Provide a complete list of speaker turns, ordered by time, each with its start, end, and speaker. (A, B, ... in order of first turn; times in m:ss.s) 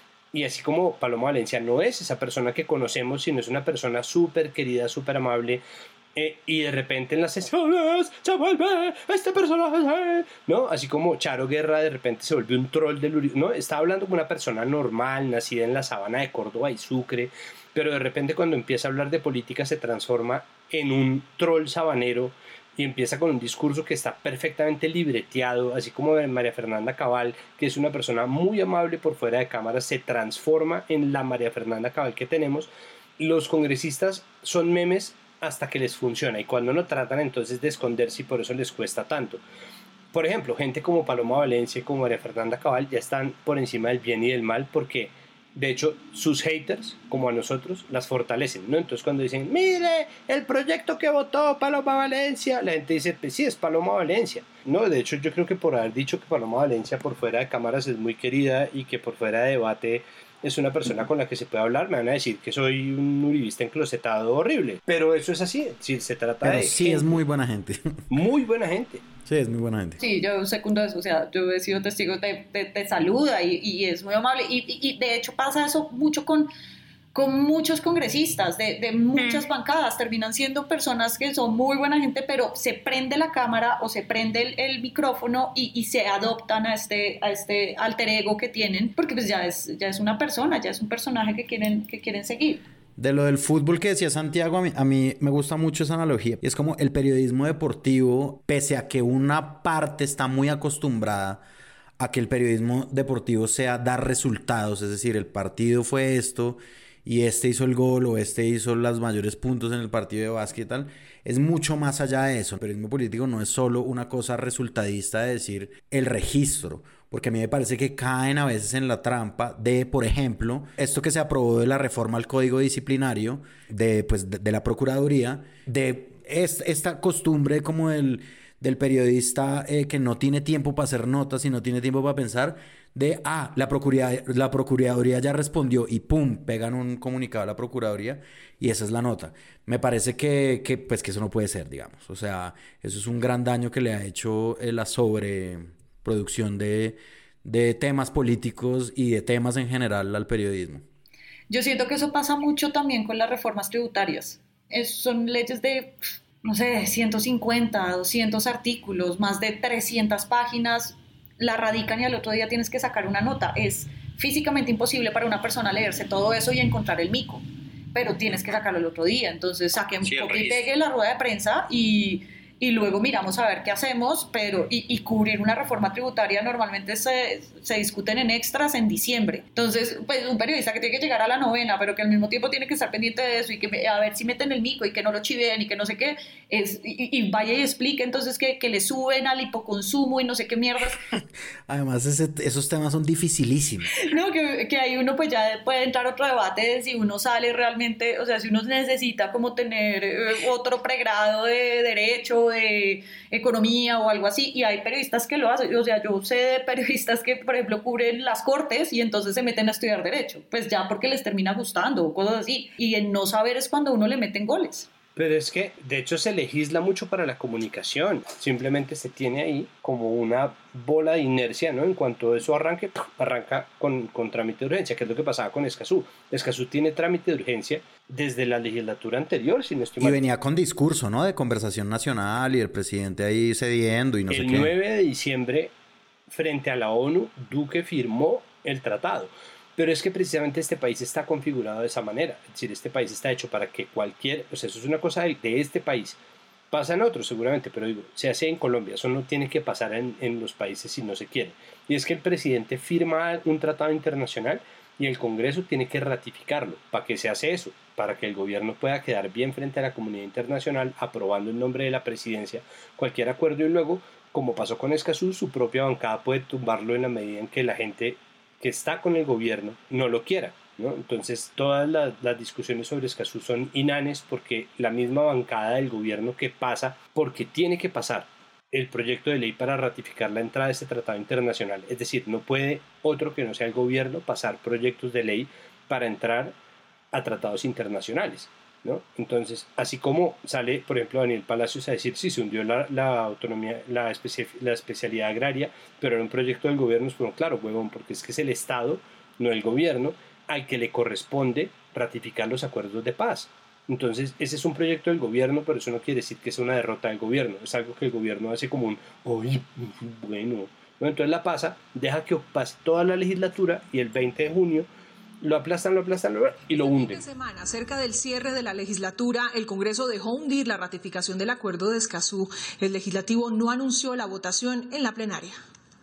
0:00.3-0:05.6 A
0:06.1-0:39.4 A
0:40.1-1:07.2 A
1:06.4-1:08.0 B
1:08.1-1:09.0 A
1:09.2-1:10.0 B
1:10.0-1:16.5 C
1:17.1-1:32.6 C
1:33.0-1:41.4 B
1:42.0-2:30.8 B
2:31.5-2:47.4 C
2:47.9-3:11.0 C
2:50.0-2:50.6 A
3:11.7-3:13.9 B
3:14.0-3:34.9 C
3:35.2-3:50.2 A
3:50.0-3:54.7 B
3:54.3-3:55.7 A
3:56.3-4:06.2 A
4:06.7-4:46.5 A
4:47.1-5:14.9 A
5:15.4-5:17.2 A
5:16.7-5:25.6 D